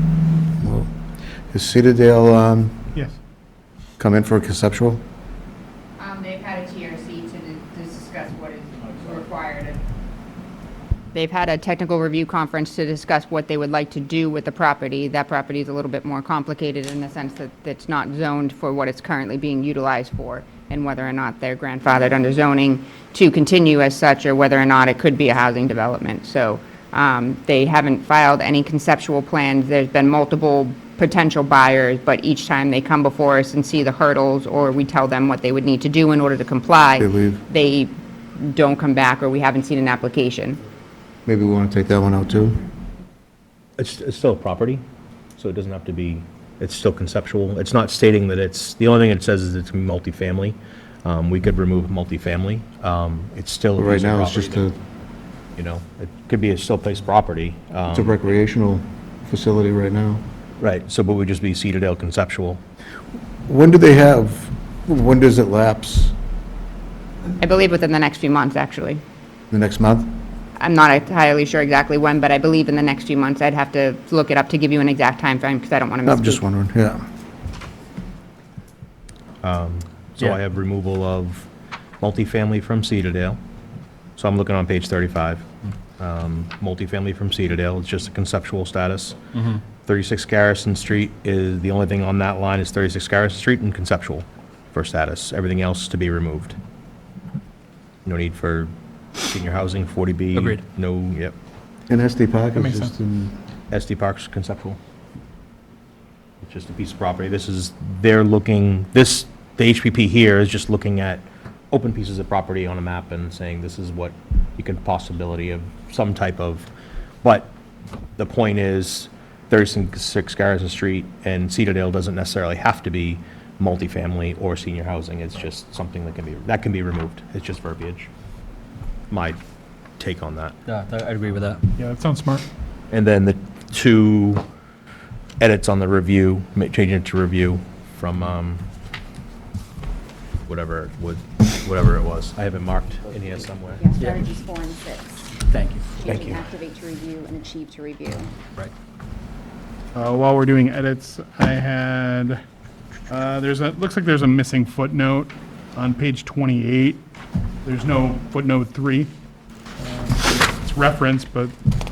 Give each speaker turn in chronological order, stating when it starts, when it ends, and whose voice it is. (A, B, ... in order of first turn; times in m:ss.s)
0:00.6-0:00.9 A
0:01.5-0:02.9 A
0:04.0-0:05.0 A
0:06.0-0:09.8 B
0:11.1-0:40.6 B
0:37.0-0:37.4 A
0:41.2-0:42.6 A
0:43.8-0:44.8 C
0:45.4-0:54.7 C
0:53.8-0:54.8 A
0:55.6-0:58.3 C
0:57.9-1:00.2 A
1:00.6-1:02.6 C
1:03.4-1:06.1 A
1:07.4-1:09.0 B
1:09.5-1:10.1 A
1:10.6-1:16.4 B
1:16.0-1:17.0 A
1:19.4-1:21.5 C
1:22.0-1:23.4 C
1:24.2-1:25.5 C
1:26.0-1:29.2 C
1:29.3-1:29.6 D
1:29.8-1:36.6 C
1:38.0-1:41.4 C
1:40.3-1:40.6 D
1:41.9-1:43.4 A
1:42.6-1:42.9 E
1:43.7-1:44.8 C
1:46.4-1:56.7 C
1:57.2-1:57.5 C
1:58.2-2:08.1 C
2:09.1-2:09.4 C
2:10.0-2:10.5 C
2:10.6-2:11.6 D
2:11.8-2:12.4 E
2:12.9-2:14.4 C
2:15.4-2:18.6 C
2:20.5-2:23.9 C
2:23.8-2:25.3 F
2:25.4-2:26.0 D
2:26.0-2:28.3 F
2:26.0-2:26.5 C
2:29.9-2:32.4 E
2:33.1-2:37.0 E
2:37.6-2:39.1 E
2:39.8-2:41.5 E